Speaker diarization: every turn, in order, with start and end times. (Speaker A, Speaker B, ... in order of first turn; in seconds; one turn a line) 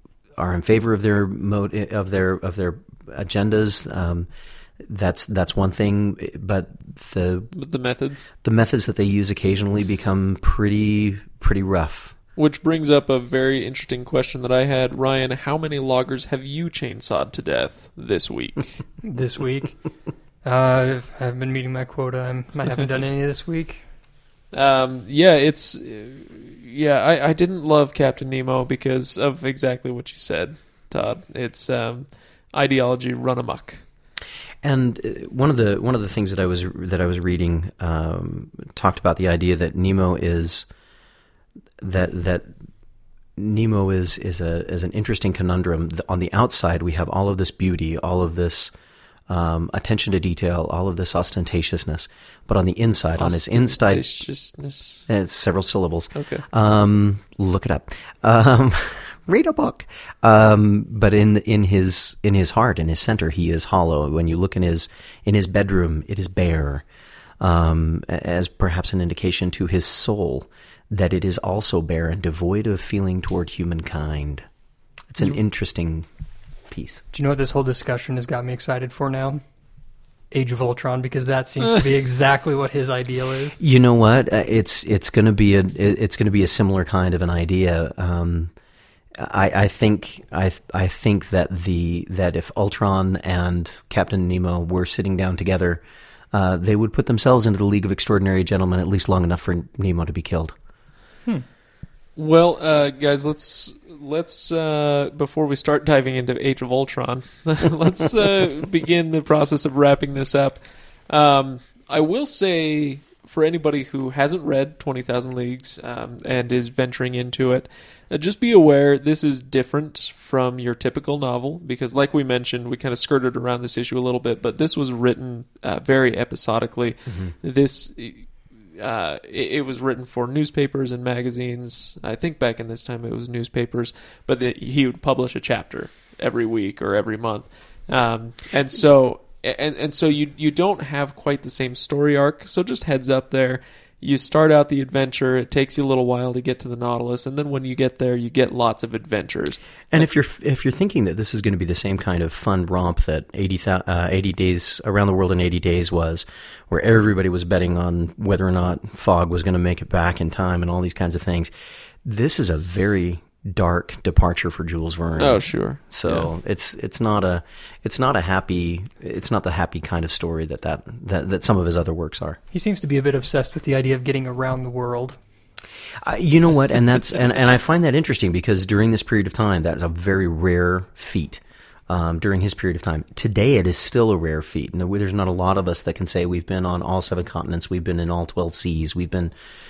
Speaker A: 0.4-4.3
Speaker A: 4.8-7.5
Speaker B: 7.5-8.3
Speaker A: 8.4-12.1
Speaker B: 12.3-18.8
Speaker C: 19.0-19.8
Speaker C: 20.4-23.8
Speaker B: 24.5-33.8
Speaker A: 34.6-40.7
Speaker A: 41.8-42.5
Speaker A: 43.4-48.7
Speaker A: 49.3-54.2
Speaker B: 53.2-55.0
Speaker A: 55.1-66.8
Speaker B: 56.1-56.4
Speaker A: 67.4-74.4
Speaker A: 75.1-76.1
Speaker A: 76.7-77.0
Speaker C: 77.1-79.4
Speaker C: 80.3-83.6
Speaker A: 83.6-88.5
Speaker A: 89.2-100.5
Speaker B: 102.2-150.0
Speaker A: 127.1-127.3
Speaker A: 149.9-161.5
Speaker A: 162.0-172.4
Speaker B: 165.2-166.3
Speaker C: 172.5-175.2
Speaker A: 176.0-189.3